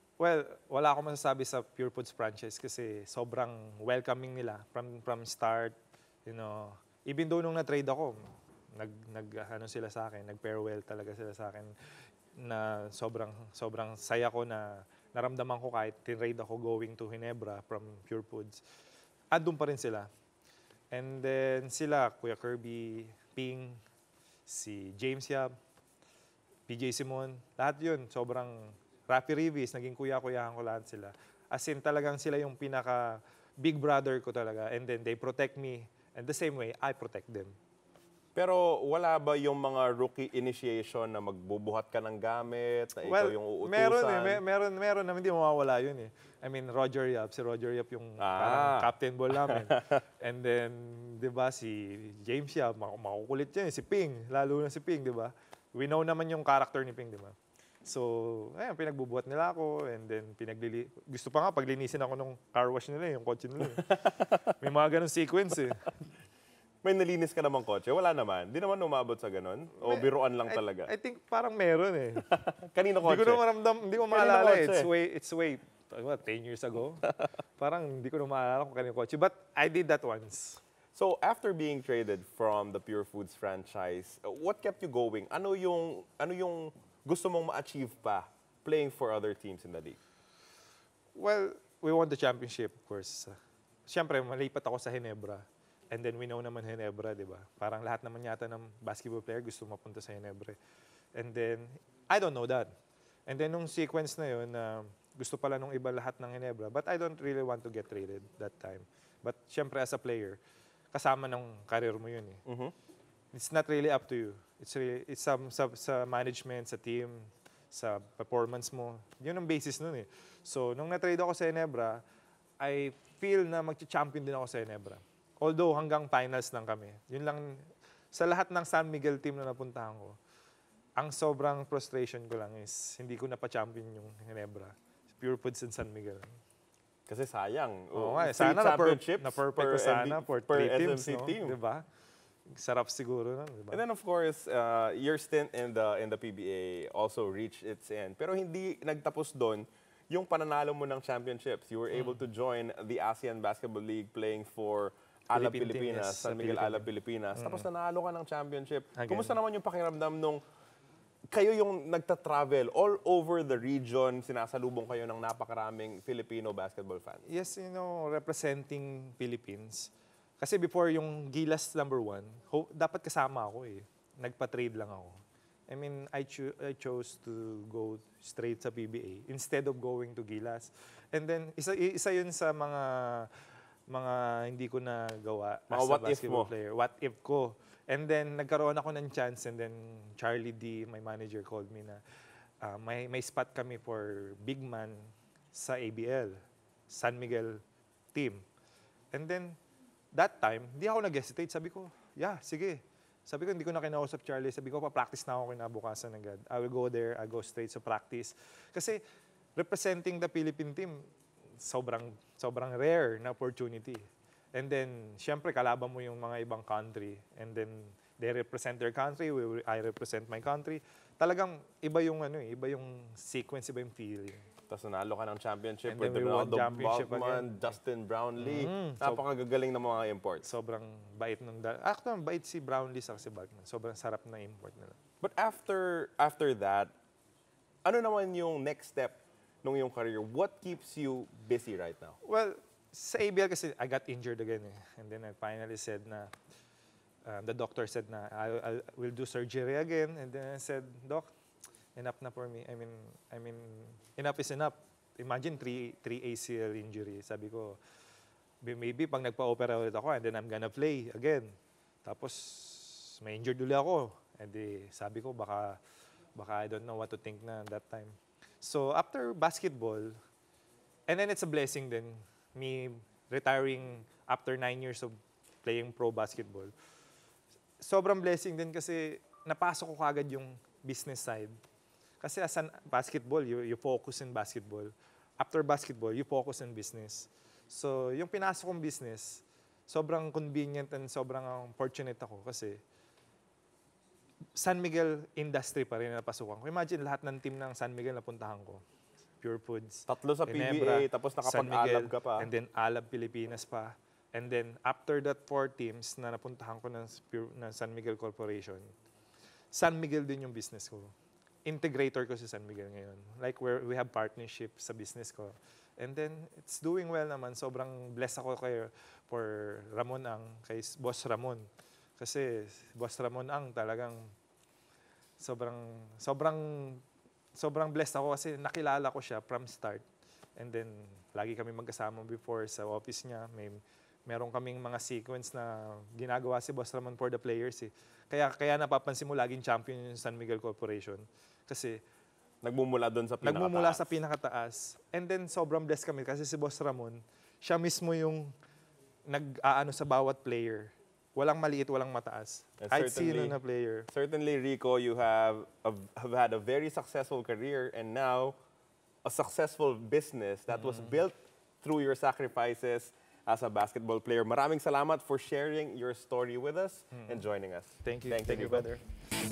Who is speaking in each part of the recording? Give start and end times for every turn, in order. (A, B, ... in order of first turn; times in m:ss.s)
0:00.2-0:08.2 A
0:08.8-0:11.7 A
0:12.4-0:18.6 A
0:19.3-0:20.1 A
0:20.9-0:23.8 A
0:24.5-0:25.5 A
0:26.7-0:37.6 A
0:38.4-0:44.4 B
0:43.0-1:03.9 A
0:48.2-0:50.0 B
1:03.7-1:04.5 B
1:04.6-1:05.9 A
1:06.8-1:10.9 B
1:09.8-1:12.3 A
1:12.3-1:13.4 B
1:13.0-1:17.1 A
1:14.1-1:14.9 B
1:17.6-1:20.6 A
1:21.0-1:30.0 B
1:31.2-1:33.4 A
1:33.9-1:40.6 A
1:41.2-1:42.7 A
1:43.3-1:50.4 A
1:50.9-1:52.4 A
1:52.5-1:52.7 B
1:53.3-2:02.0 A
2:02.6-2:10.2 A
2:11.0-2:16.4 A
2:17.1-2:21.6 B
2:18.0-2:21.8 A
2:22.5-2:23.8 A
2:23.7-2:40.4 B
2:31.9-2:32.2 A
2:35.3-2:37.7 A
2:39.0-2:39.4 A
2:41.3-2:47.2 B
2:47.3-3:12.0 A
3:05.7-3:06.5 B
3:12.6-3:16.4 A
3:16.9-3:17.6 A
3:18.1-3:18.4 A
3:19.1-3:19.6 A
3:20.1-3:29.0 A
3:29.6-3:31.1 A
3:31.6-3:44.4 A
3:44.7-3:50.5 B
3:45.9-3:47.7 A
3:48.4-3:49.2 A
3:50.4-3:55.0 A
3:55.2-3:56.9 B
3:57.8-4:02.2 B
4:02.2-4:06.3 A
4:07.3-4:11.3 A
4:12.0-4:17.8 A
4:18.6-4:21.5 A
4:22.0-4:25.8 A
4:26.4-4:30.1 A
4:31.1-4:36.7 A
4:37.8-4:41.6 A
4:42.2-4:52.8 A
4:54.6-4:58.8 A
4:59.4-5:08.9 A
5:00.1-5:02.5 B
5:09.7-5:11.1 A
5:11.6-5:24.2 A
5:25.4-5:27.0 A
5:27.6-5:30.0 A
5:30.6-5:42.0 A
5:42.6-5:44.1 B
5:43.4-5:48.5 A
5:49.3-5:54.1 A
5:52.8-5:53.6 B
5:54.1-5:58.5 B
5:59.2-6:09.0 B
6:00.7-6:01.2 A
6:07.1-6:07.4 A
6:08.0-6:08.9 A